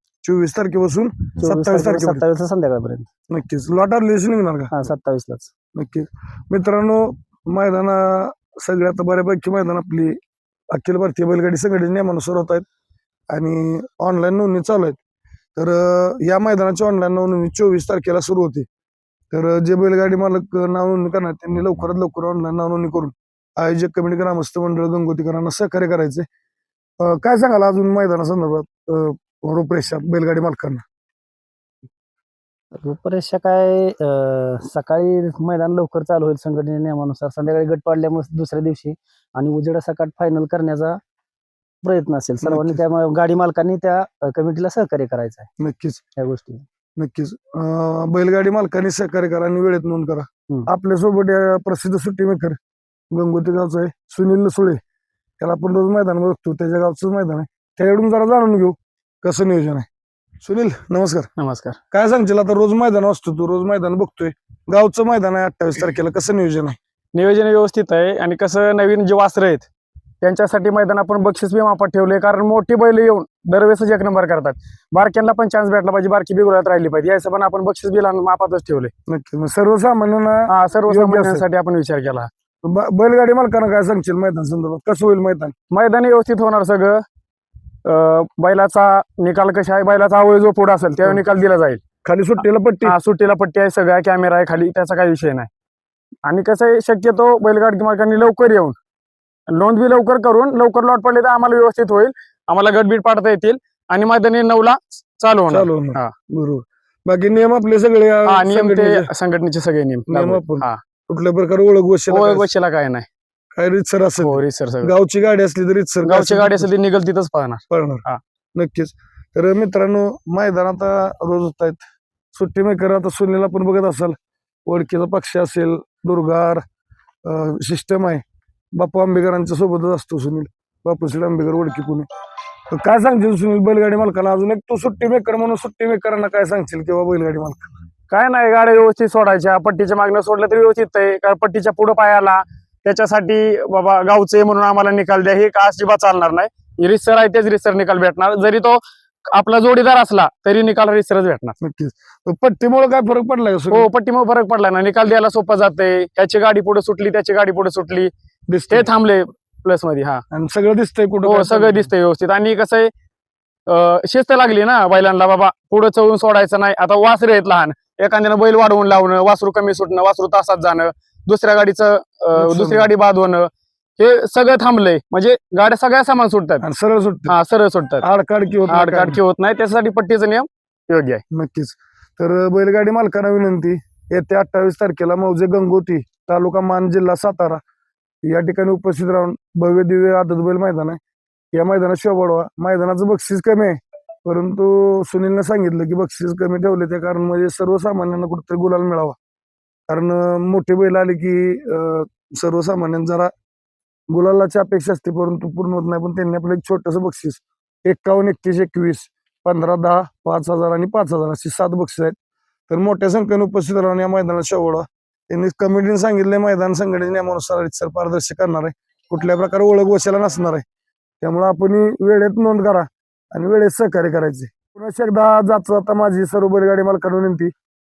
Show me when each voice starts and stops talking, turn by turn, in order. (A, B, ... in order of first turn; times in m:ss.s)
0:00.2-0:02.2 A
0:01.4-0:03.1 B
0:03.3-0:04.7 A
0:04.7-0:05.5 B
0:05.7-0:10.2 A
0:10.7-0:12.6 A
0:13.3-0:15.0 A
0:15.6-0:18.6 A
0:19.3-0:26.2 A
0:27.0-0:30.8 A
0:32.7-0:41.0 B
0:41.8-0:45.5 B
0:42.4-0:42.8 A
0:45.6-0:46.0 A
0:46.2-0:46.6 B
0:47.0-0:52.6 A
0:53.1-0:54.8 A
0:55.4-0:59.9 A
1:00.4-1:01.3 A
1:01.4-1:01.8 C
1:01.9-1:06.8 A
1:07.1-1:09.7 C
1:10.2-1:18.9 C
1:19.1-1:21.4 A
1:20.5-1:22.3 C
1:22.6-1:25.5 A
1:25.7-1:27.0 C
1:27.8-1:31.8 C
1:32.0-1:33.0 A
1:32.8-1:35.5 C
1:36.2-1:38.7 C
1:39.5-1:46.1 C
1:45.5-1:49.1 A
1:48.2-1:50.8 C
1:50.1-1:52.5 A
1:52.1-1:53.1 C
1:53.5-1:56.7 A
1:54.2-1:54.9 C
1:56.0-1:58.2 C
1:57.7-1:58.0 A
1:58.6-2:01.8 A
2:02.3-2:06.6 A
2:07.2-2:08.2 A
2:08.7-2:12.0 A
2:12.7-2:17.8 A
2:18.1-2:31.6 C
2:31.6-2:33.9 A
2:33.7-2:38.1 C
2:38.5-2:38.9 A
2:38.7-2:40.2 C
2:40.3-2:41.9 A
2:41.2-2:42.9 C
2:43.7-2:56.6 C
2:52.3-2:52.9 A
2:56.6-2:57.3 A
2:57.3-2:58.0 C
2:58.0-2:59.2 A
2:58.7-3:01.2 C
3:01.3-3:07.6 A
3:08.2-3:11.0 A
3:11.5-3:19.2 A
3:19.9-3:23.3 A
3:24.1-3:32.2 A
3:32.7-3:40.6 A
3:41.2-3:47.5 A